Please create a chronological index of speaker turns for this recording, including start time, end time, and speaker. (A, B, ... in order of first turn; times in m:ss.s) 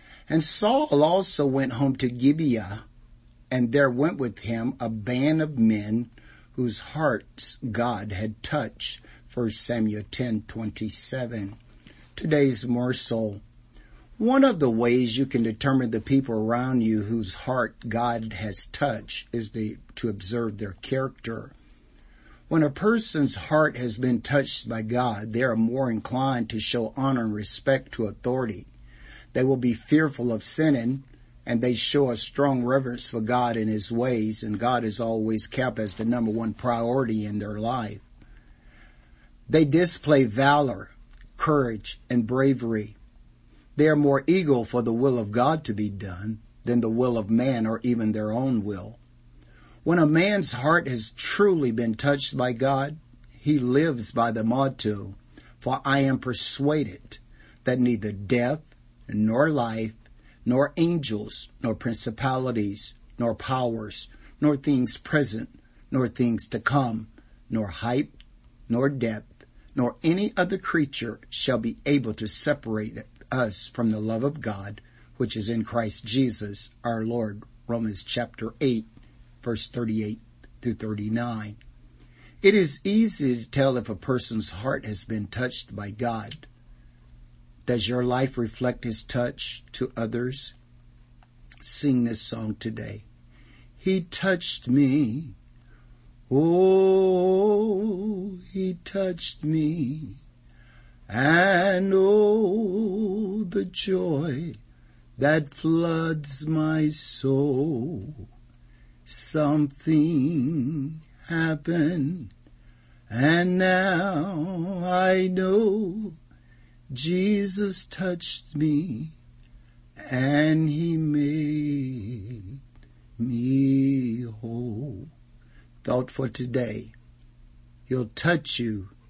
0:00.3-0:02.8 A
0:03.5-0:11.6 A
0:12.2-0:13.4 A
0:14.2-0:21.5 A
0:22.5-0:28.7 A
0:29.3-0:38.0 A
0:39.5-0:43.0 A
0:43.8-0:49.0 A
0:49.8-1:18.9 A
1:19.4-1:21.6 A
1:22.4-1:26.5 A
1:27.6-1:30.5 A
1:31.6-1:33.0 A
1:33.8-1:35.3 A
1:36.3-1:40.2 A
1:41.1-1:44.6 A
1:45.2-1:48.2 A
1:49.0-1:52.3 A
1:53.1-1:56.2 A
1:56.9-1:59.1 A
2:00.0-2:02.6 A
2:03.2-2:05.1 A
2:05.8-2:06.9 A
2:07.9-2:08.9 A